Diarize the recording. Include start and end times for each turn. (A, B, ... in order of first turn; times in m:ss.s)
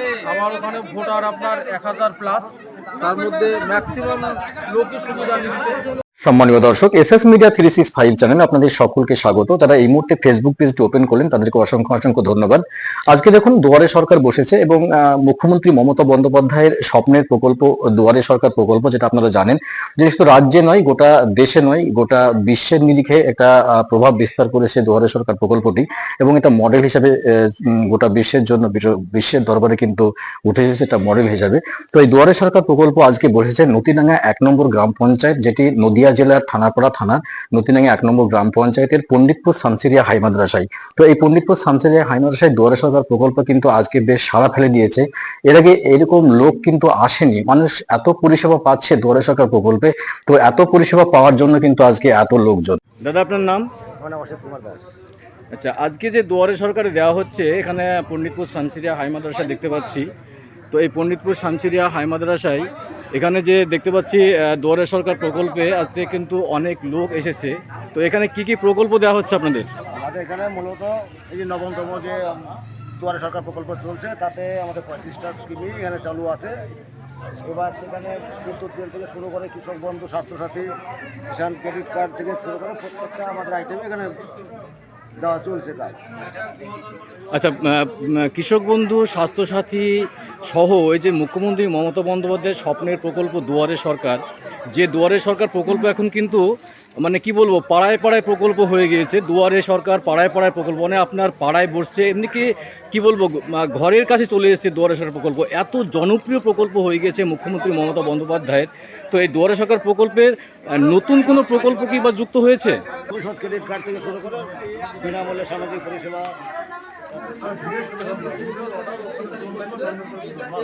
0:00.2-0:05.8 A
0:06.2-0:52.8 B
0:53.0-0:53.7 C
0:54.0-0:54.9 D
0:55.5-1:00.0 C
1:00.7-1:09.7 C
1:10.0-1:16.5 D
1:17.4-1:20.7 D
1:21.3-1:24.1 D
1:25.2-1:26.0 D
1:27.3-1:36.4 C
1:37.0-1:52.8 C
1:53.1-1:56.3 D
1:57.2-1:58.6 D
2:00.2-2:00.5 D